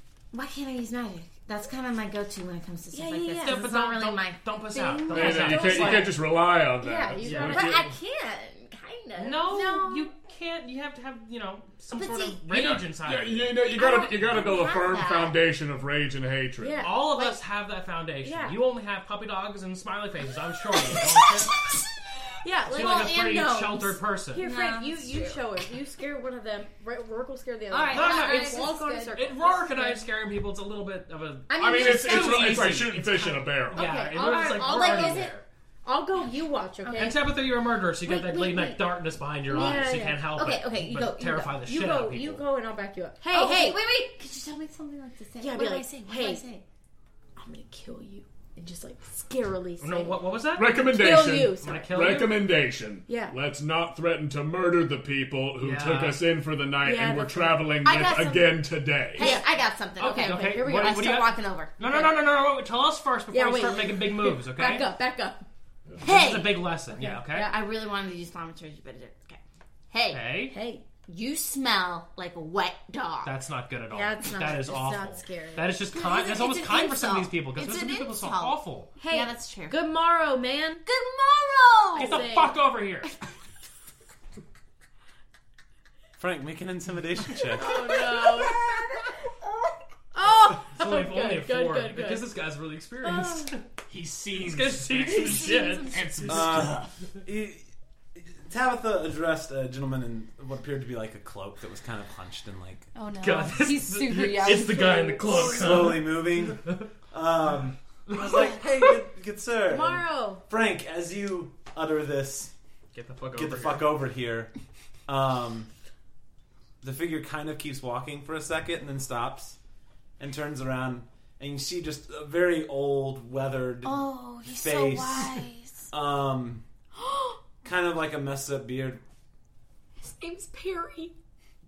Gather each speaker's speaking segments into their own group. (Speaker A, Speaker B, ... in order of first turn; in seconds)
Speaker A: 0.3-6.0, 7.0-9.8, 11.9-12.4, 13.7-15.4, 22.7-25.6, 27.7-29.1, 31.5-33.0, 34.1-35.4, 36.8-37.1, 38.0-38.8, 39.5-41.7, 43.3-46.6, 57.8-58.6, 59.1-62.1, 66.0-66.7, 67.3-70.5, 71.0-73.3, 75.9-79.8, 80.8-82.3, 87.6-89.8, 95.1-96.3, 103.0-105.8, 123.8-125.9
Speaker B: 2.9-3.7, 5.0-6.2, 6.8-7.8, 9.5-10.1, 16.6-17.4, 18.2-18.6, 22.4-30.1, 33.7-37.2, 39.5-40.2, 41.7-43.8, 45.4-46.4, 47.4-50.2, 50.8-52.3, 53.1-53.4, 56.8-57.7, 59.2-60.9, 63.3-65.5, 67.0-67.2, 70.5-70.8, 73.9-75.7, 79.0-80.8, 81.9-82.6, 87.6-88.6, 90.1-92.3, 93.0-93.5, 109.7-110.4, 127.0-127.4, 130.0-131.1
Speaker C: 3.4-6.1, 7.2-7.7, 9.2-13.6, 16.8-21.6, 22.7-24.4, 27.9-35.5, 37.0-42.4, 49.8-50.9, 51.6-52.5, 55.6-56.2, 60.0-64.9, 66.0-67.5, 70.1-70.5, 73.2-78.9, 82.0-83.1, 90.7-93.7, 94.3-96.4, 103.2-106.8, 112.9-113.9
Speaker D: 5.1-7.9, 12.5-16.9, 31.6-33.9, 50.6-59.3, 93.9-96.9
Speaker E: 86.2-87.7, 96.3-102.9, 105.3-112.5, 113.3-114.5, 115.1-115.7, 116.8-119.6, 120.2-126.7, 127.6-129.0